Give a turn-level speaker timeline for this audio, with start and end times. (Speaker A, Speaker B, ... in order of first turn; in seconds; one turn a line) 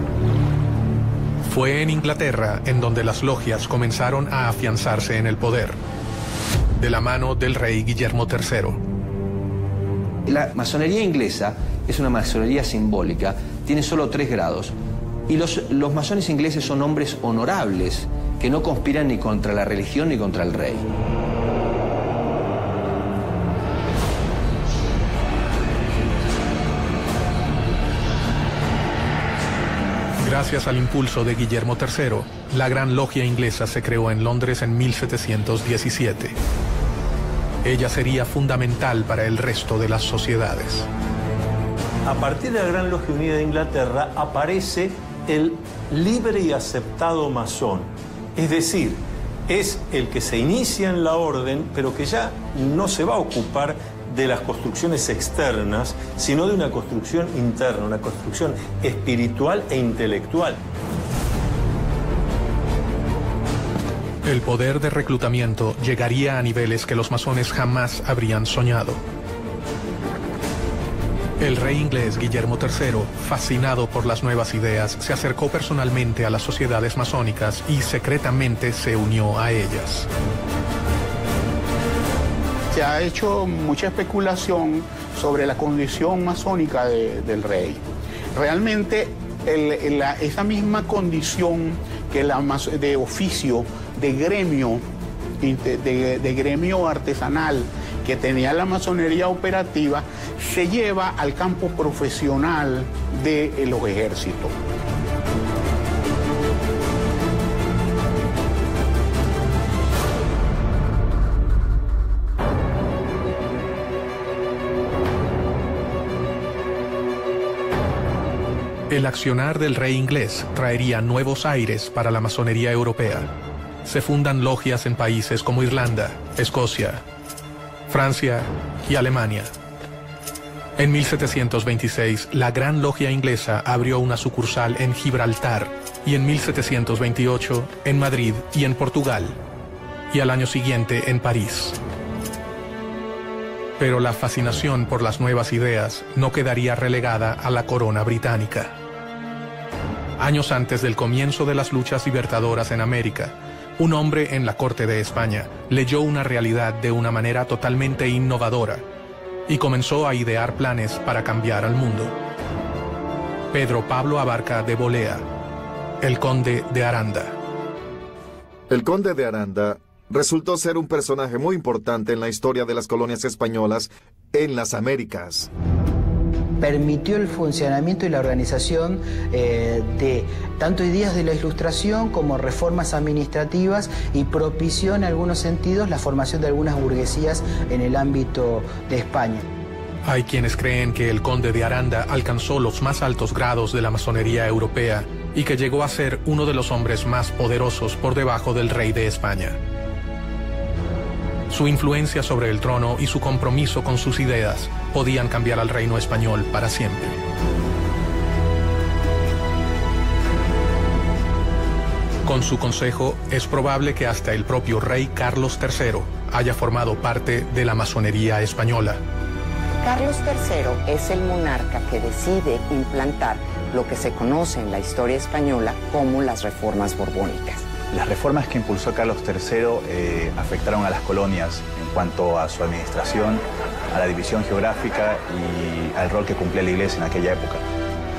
Speaker A: 1.4-5.8
Speaker A: 6.8-8.8
Speaker B: 10.2-14.7
Speaker B: 15.3-20.9
Speaker A: 30.2-36.4
Speaker A: 37.6-40.9
Speaker C: 42.0-60.6
Speaker A: 64.2-69.0
Speaker A: 71.4-80.1
Speaker D: 82.7-94.8
Speaker D: 95.4-104.5
Speaker A: 118.9-123.3
Speaker A: 123.8-127.0
Speaker A: 127.9-129.5
Speaker A: 130.8-139.4
Speaker A: 140.1-141.8
Speaker A: 143.8-148.7
Speaker A: 150.2-158.8
Speaker A: 159.5-162.1
Speaker A: 163.5-165.2
Speaker A: 166.0-167.4
Speaker E: 168.7-175.5
Speaker F: 176.6-189.5
Speaker A: 190.0-199.6
Speaker A: 201.5-207.2
Speaker A: 212.2-219.0
Speaker G: 219.8-227.6
Speaker H: 227.9-237.6